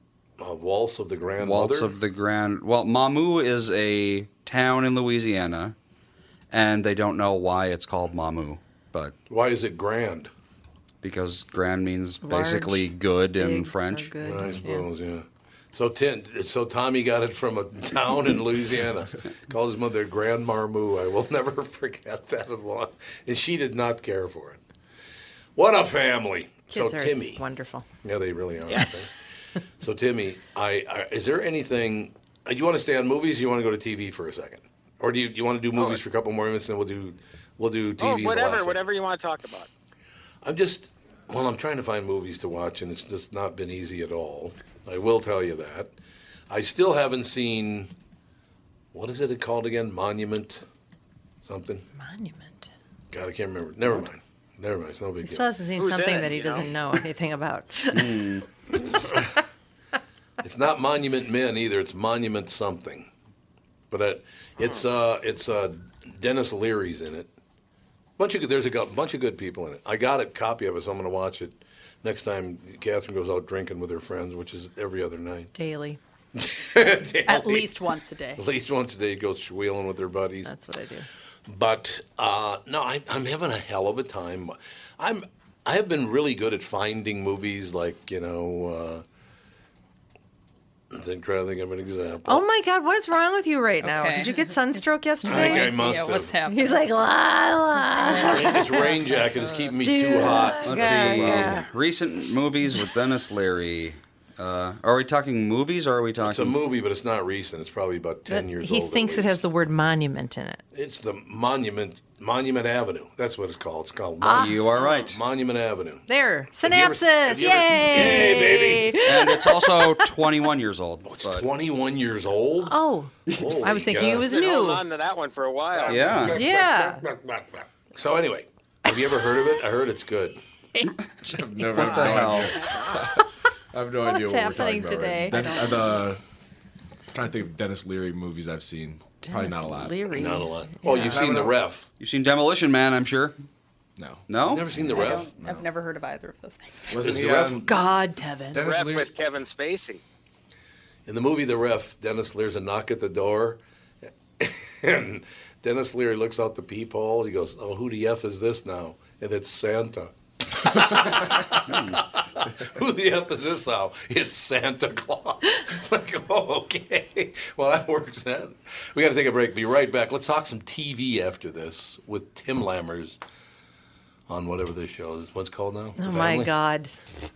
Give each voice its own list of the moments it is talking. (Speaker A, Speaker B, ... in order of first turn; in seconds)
Speaker A: 0.4-1.9, 9.3-10.3, 14.2-24.6, 25.6-27.4, 28.0-29.1, 29.8-38.8, 40.4-45.9, 46.5-47.9, 48.9-50.7, 51.4-51.9, 53.1-55.5, 60.4-63.1, 63.9-67.3, 68.2-75.5, 76.3-77.7, 78.4-80.5, 81.5-89.0, 90.9-92.5, 95.3-96.3, 98.1-101.6, 106.2-109.4, 110.7-119.0, 121.0-122.8, 123.3-124.3, 125.8-130.4, 140.1-141.9, 144.4-145.3, 147.0-147.7, 151.1-153.6, 154.4-173.2, 174.3-176.5
Speaker B: 1.4-5.8, 6.5-9.2, 11.0-14.2, 57.9-58.5, 100.6-106.6, 114.3-115.2, 119.0-121.5, 125.9-126.4, 131.7-132.6, 141.1-143.4, 144.3-144.7
Speaker C: 12.2-14.9, 26.7-27.9, 52.0-52.7, 55.2-58.4, 75.5-76.0, 80.5-81.1, 92.3-95.8, 96.5-101.7, 108.3-110.6, 114.2-114.6, 116.1-120.2, 122.6-124.8, 126.3-127.0, 134.0-135.8, 139.2-140.3, 140.8-141.4, 147.7-148.6, 176.0-176.9
Speaker D: 28.7-28.9, 35.8-36.0, 38.0-39.7, 55.8-56.7, 64.6-64.8, 114.8-115.1, 124.2-126.3, 148.6-150.0
Speaker E: 77.3-78.4, 93.8-96.9, 144.9-147.1
Speaker F: 131.2-136.2, 137.1-140.1, 144.0-144.3, 144.9-145.7, 146.9-147.7, 148.5-149.1